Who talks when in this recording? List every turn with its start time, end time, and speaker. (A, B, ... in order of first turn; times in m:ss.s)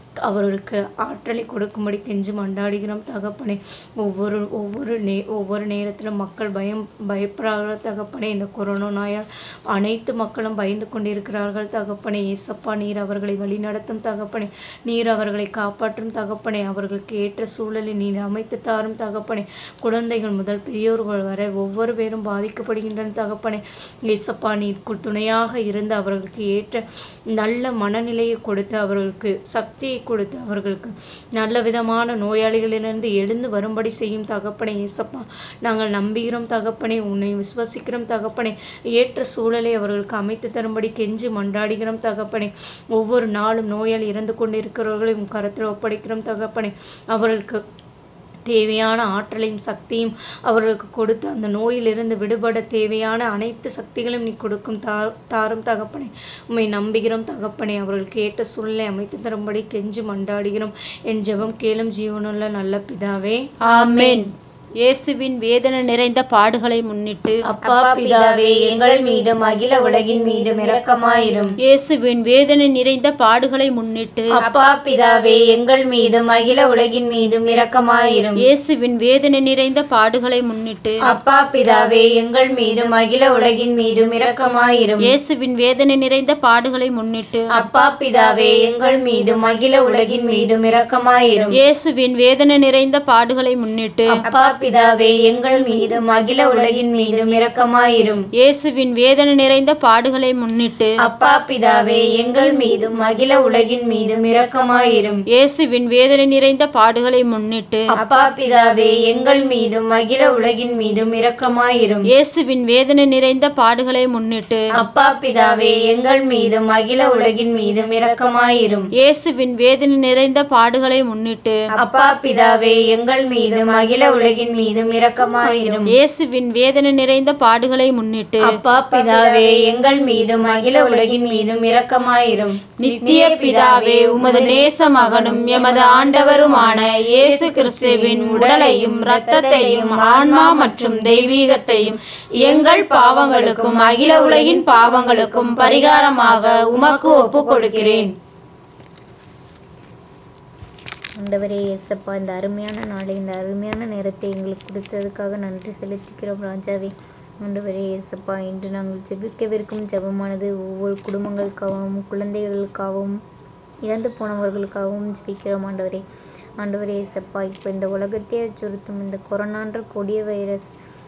0:00.2-0:26.8 A
0:27.3-0:47.6 A
0:48.5-1:03.4 A
1:03.6-1:04.3 B
1:03.7-1:04.2 C
1:04.8-1:07.4 B
1:07.5-1:11.5 A
1:07.7-1:11.5 C
1:11.6-1:14.4 B
1:14.4-1:18.4 A
1:18.4-1:21.0 B
1:21.1-1:25.1 A
1:25.0-1:27.6 B
1:27.5-1:31.6 A
1:31.6-1:34.1 B
1:34.1-1:38.2 A
1:38.4-1:40.9 B
1:41.0-1:45.2 A
1:45.3-1:47.9 B
1:48.0-1:52.1 A
1:52.1-1:54.7 B
1:54.8-1:58.9 A
1:57.0-1:58.4 C
1:59.0-2:01.6 B
2:01.7-2:02.4 C
2:01.8-2:05.9 A
2:05.9-2:08.6 B
2:08.4-2:13.8 A
2:08.9-2:09.6 C
2:10.4-2:11.1 C
2:12.8-2:28.1 B
2:13.0-2:14.7 C
2:15.3-2:16.0 C
2:17.3-2:18.8 A
2:19.1-2:20.0 C
2:26.5-2:28.1 A
2:31.2-2:43.2 C
2:43.8-2:46.0 C
2:46.6-2:50.7 C